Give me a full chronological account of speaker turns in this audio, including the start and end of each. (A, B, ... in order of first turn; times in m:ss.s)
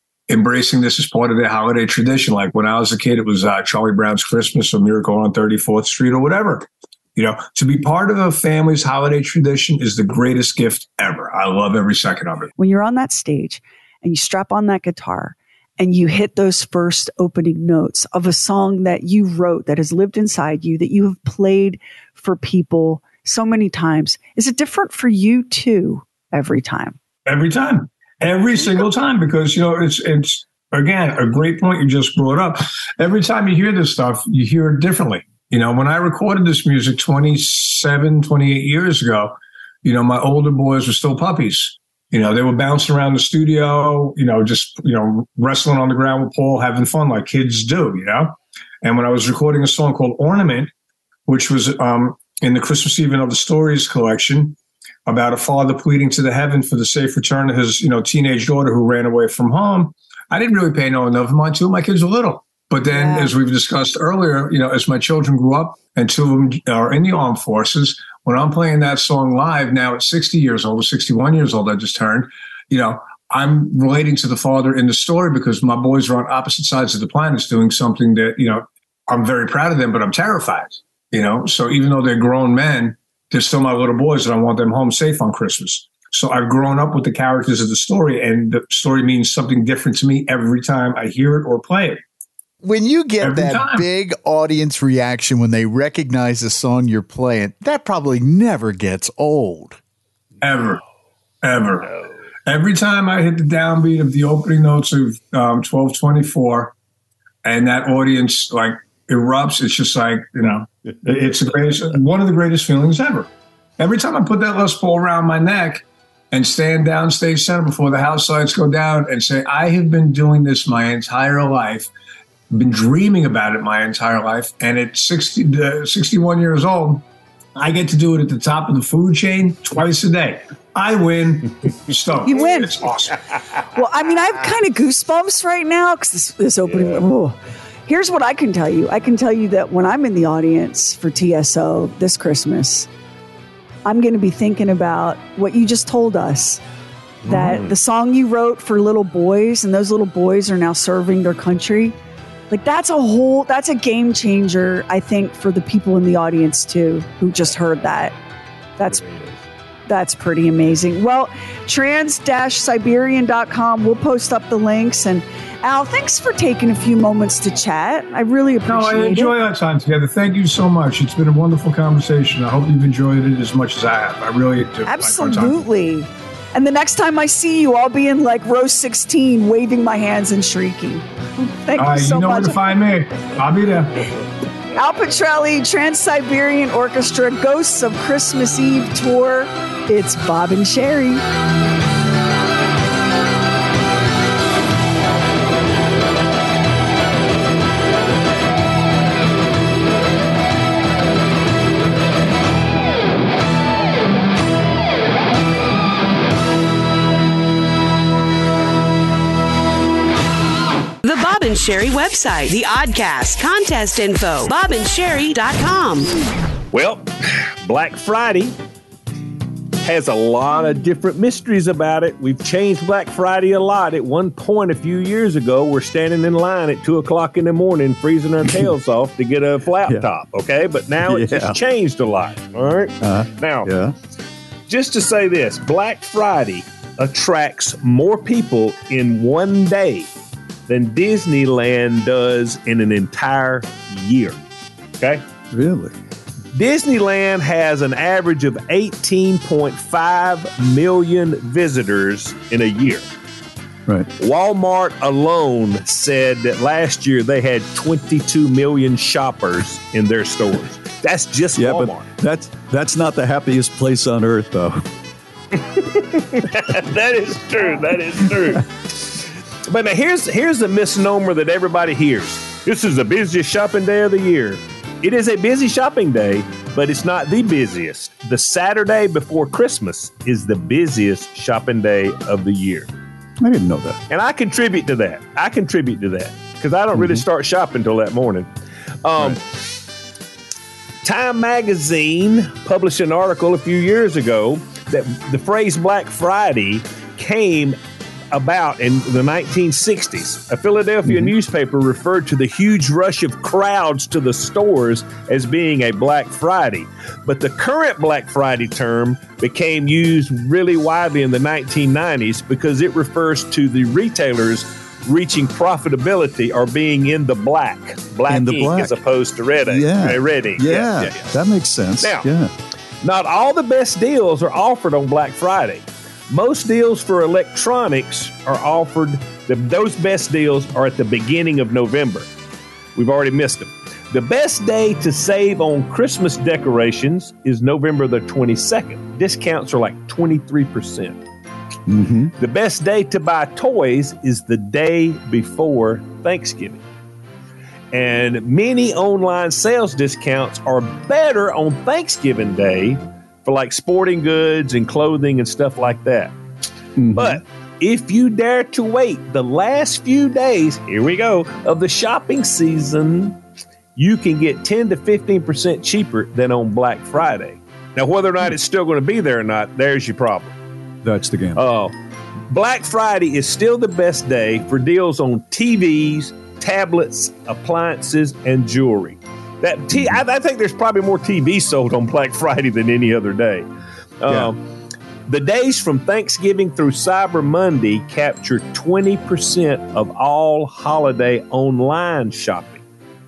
0:00.3-0:12.5 A
0:12.6-0:27.0 B
0:27.3-0:50.7 A
0:51.3-1:32.0 A
1:02.9-1:03.3 B
1:32.6-1:39.8 C
1:33.2-1:33.9 A
1:40.4-1:40.8 A
1:41.4-1:41.9 A
1:42.5-1:46.7 A
1:47.4-2:01.9 A
2:02.5-2:07.0 A
2:07.6-2:13.2 A
2:12.2-2:12.8 B
2:13.7-2:22.9 B
2:23.8-2:26.6 B
2:27.2-2:32.0 B
2:27.3-2:27.7 D
2:32.5-2:38.1 B
2:39.0-2:39.4 D
2:39.9-2:49.3 B
2:48.7-2:55.6 A
2:54.8-3:02.6 B
3:01.8-3:04.0 A
3:04.7-3:11.2 B
3:31.0-3:36.1 E
3:36.7-3:38.5 D
3:39.8-3:53.7 D
3:51.0-3:51.6 F
3:53.0-3:53.9 F
3:54.7-4:00.1 D
4:00.7-4:04.4 D
4:05.5-4:05.9 F
4:06.5-4:13.0 D
4:14.2-4:22.1 D
4:21.6-4:24.8 F
4:26.3-4:28.6 D
4:29.7-4:42.9 D
4:43.4-4:44.0 F
4:44.1-4:48.5 D
4:46.9-4:47.2 F
4:49.0-4:49.4 D
4:51.0-4:57.8 D
4:58.3-5:21.3 D
5:01.0-5:01.3 F
5:18.3-5:18.9 F
5:19.6-5:22.5 F
5:22.0-5:22.3 D
5:23.0-5:32.3 D
5:33.0-5:41.2 D
5:41.9-5:42.3 F
5:42.4-5:46.8 D
5:47.9-5:56.3 D
5:57.0-5:57.4 F
5:57.1-6:03.4 D
6:04.0-6:10.5 D
6:11.0-6:11.6 F
6:11.5-6:11.9 D
6:12.5-6:23.6 D
6:24.2-6:24.6 D
6:25.3-6:32.8 D